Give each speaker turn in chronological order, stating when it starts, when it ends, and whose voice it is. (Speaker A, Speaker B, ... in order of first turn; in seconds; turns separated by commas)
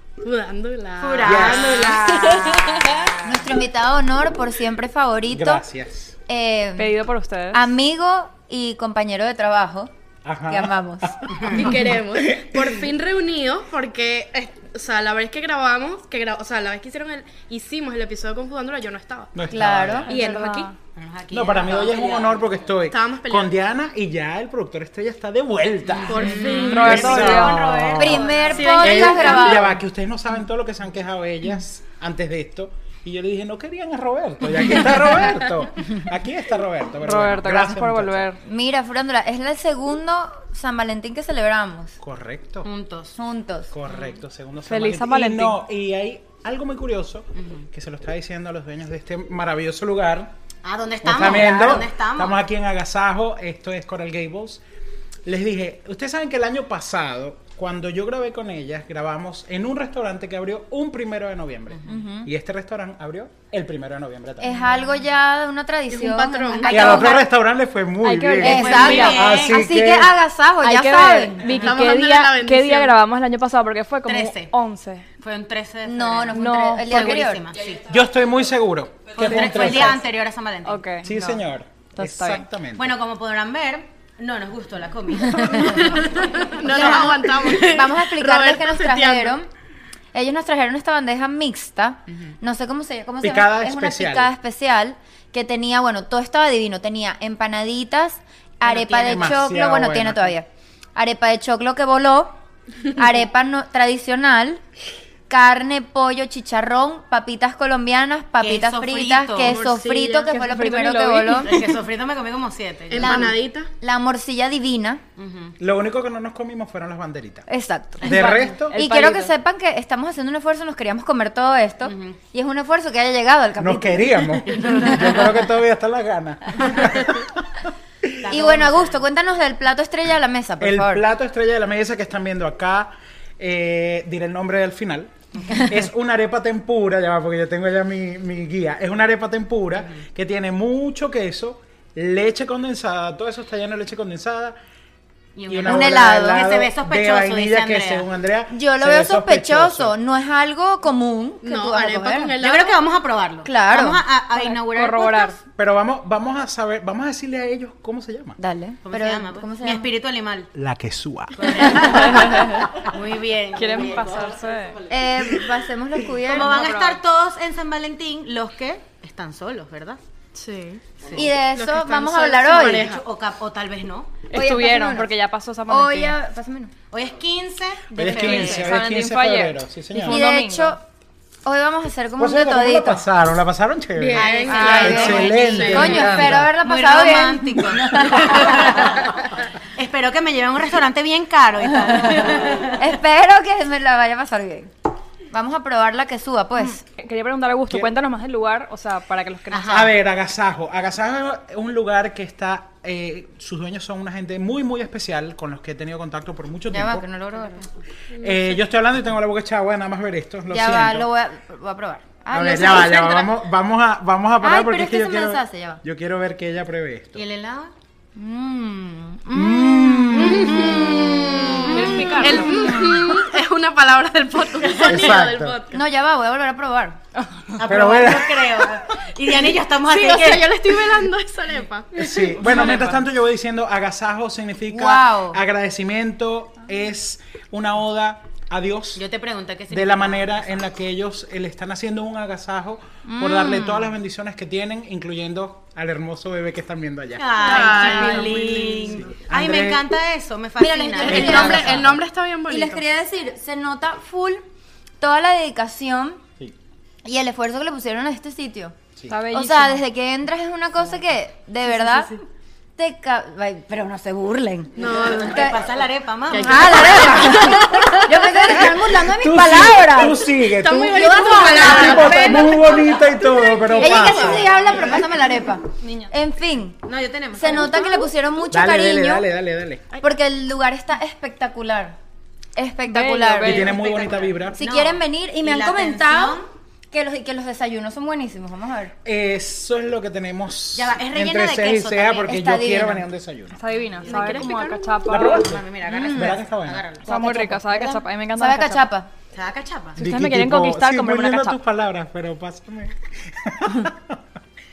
Speaker A: 0.2-2.9, Speaker B: 1.0-3.5, Speaker C: 1.2-1.9, Speaker D: 3.2-5.6, Speaker C: 5.3-6.2, Speaker D: 6.3-7.0, Speaker E: 6.8-7.7, Speaker D: 7.5-9.9, Speaker C: 10.2-12.8, Speaker D: 10.5-11.3, Speaker A: 11.5-19.4, Speaker C: 19.4-20.1, Speaker D: 19.5-20.2, Speaker A: 20.1-20.7, Speaker E: 20.1-20.7, Speaker B: 20.9-22.5, Speaker C: 21.3-38.4, Speaker A: 22.9-23.5, Speaker B: 25.9-29.1, Speaker A: 26.1-27.0, Speaker E: 26.2-27.7, Speaker D: 28.0-29.8, Speaker A: 28.5-29.6, Speaker E: 37.0-38.4, Speaker D: 38.5-42.0, Speaker C: 42.0-42.7, Speaker B: 42.6-43.2, Speaker D: 43.2-43.7, Speaker C: 43.7-50.3, Speaker E: 44.7-45.6, Speaker B: 47.4-47.6, Speaker B: 50.6-52.4, Speaker C: 51.0-54.6, Speaker C: 55.2-64.7, Speaker D: 61.9-62.3, Speaker D: 64.4-67.3, Speaker A: 65.9-67.1, Speaker C: 66.7-70.2, Speaker E: 68.0-69.2, Speaker D: 68.4-71.6, Speaker B: 68.4-69.7, Speaker E: 70.6-75.1, Speaker B: 71.5-71.7, Speaker A: 71.5-73.0, Speaker B: 74.0-74.5, Speaker B: 75.2-77.9, Speaker D: 75.8-77.5, Speaker E: 76.3-77.3, Speaker C: 77.8-80.0, Speaker B: 79.2-80.8, Speaker E: 80.7-81.4, Speaker C: 81.0-82.9, Speaker E: 82.0-82.5, Speaker B: 82.8-87.7, Speaker A: 85.3-89.4, Speaker D: 86.7-89.5, Speaker D: 90.1-102.3, Speaker C: 93.2-94.3, Speaker B: 98.6-99.5, Speaker C: 99.1-100.4, Speaker D: 102.9-104.6, Speaker D: 105.3-111.7, Speaker B: 108.4-109.6, Speaker A: 109.5-110.5, Speaker E: 110.3-111.5, Speaker B: 111.4-113.4, Speaker A: 112.9-113.7, Speaker D: 113.0-115.0, Speaker B: 115.2-115.6, Speaker C: 115.6-117.5, Speaker D: 117.5-125.3, Speaker C: 118.0-118.8, Speaker E: 118.1-119.3, Speaker B: 121.8-122.2, Speaker C: 123.6-127.3, Speaker B: 128.2-129.0, Speaker D: 128.2-131.0, Speaker C: 130.6-144.6, Speaker B: 139.8-140.1, Speaker B: 145.4-148.1, Speaker C: 145.5-149.9, Speaker D: 145.7-146.4, Speaker D: 148.5-152.4, Speaker A: 151.4-152.8, Speaker B: 152.4-155.4, Speaker D: 153.4-154.0, Speaker E: 154.4-155.4, Speaker C: 155.6-158.4, Speaker D: 158.4-159.9, Speaker B: 158.8-160.5, Speaker C: 160.5-162.5, Speaker B: 161.3-164.3, Speaker E: 162.0-162.7, Speaker E: 163.6-164.9, Speaker D: 164.9-166.7, Speaker B: 166.2-170.0, Speaker E: 166.3-167.0, Speaker A: 170.3-173.0, Speaker B: 171.0-171.3, Speaker D: 171.1-172.9, Speaker B: 172.4-174.1, Speaker E: 174.3-176.2, Speaker D: 174.3-175.1, Speaker D: 175.7-176.7, Speaker B: 176.9-178.8, Speaker C: 177.9-180.2, Speaker E: 178.0-180.8, Speaker D: 179.9-180.8, Speaker D: 181.4-183.0, Speaker C: 182.2-186.6, Speaker A: 184.0-186.1, Speaker B: 184.1-189.1, Speaker D: 184.4-188.9, Speaker B: 189.8-192.9, Speaker D: 191.9-194.7, Speaker D: 195.3-196.8, Speaker E: 196.6-199.9, Speaker B: 199.5-199.9, Speaker C: 199.7-207.1, Speaker D: 206.7-207.7, Speaker A: 208.2-208.5, Speaker C: 208.2-211.1, Speaker D: 210.5-213.3, Speaker C: 212.3-217.2, Speaker D: 214.4-215.8, Speaker B: 217.2-217.7, Speaker D: 218.2-223.2, Speaker C: 219.3-221.2, Speaker B: 220.6-222.1, Speaker A: 221.4-225.8, Speaker E: 221.7-222.6, Speaker C: 224.8-225.6, Speaker D: 225.7-227.0, Speaker B: 227.5-230.8, Speaker C: 227.7-228.9, Speaker A: 229.8-232.4, Speaker C: 232.0-239.0, Speaker B: 232.1-233.0, Speaker D: 234.7-235.4, Speaker B: 238.9-240.6, Speaker C: 239.7-247.8, Speaker D: 243.1-243.9, Speaker B: 247.2-251.9, Speaker A: 247.4-249.1, Speaker C: 249.0-249.8, Speaker D: 250.6-254.4, Speaker A: 251.0-252.8, Speaker C: 251.1-252.0, Speaker D: 255.0-256.2, Speaker D: 257.0-258.8, Speaker E: 259.1-259.8, Speaker D: 259.3-262.2, Speaker A: 261.8-262.0, Speaker D: 262.8-265.6, Speaker B: 264.8-267.1, Speaker A: 264.8-265.5, Speaker A: 266.3-268.0, Speaker D: 266.3-272.6, Speaker C: 266.7-274.5, Speaker A: 270.4-275.0, Speaker D: 273.8-276.8, Speaker B: 274.4-275.1, Speaker E: 275.8-276.1, Speaker B: 276.8-278.1, Speaker D: 277.4-279.2, Speaker C: 278.5-279.9, Speaker D: 280.0-282.0, Speaker D: 282.6-283.8, Speaker E: 282.9-283.8, Speaker C: 283.4-284.6, Speaker B: 283.6-286.5, Speaker D: 284.6-288.9, Speaker C: 289.1-293.6, Speaker B: 290.8-292.4, Speaker D: 292.3-293.1, Speaker E: 293.5-295.6, Speaker A: 294.1-295.0, Speaker C: 295.1-296.9, Speaker B: 295.1-297.1, Speaker D: 295.9-296.4, Speaker D: 297.1-299.1, Speaker E: 297.1-298.9, Speaker B: 299.3-300.0, Speaker E: 300.0-301.6, Speaker C: 300.0-304.2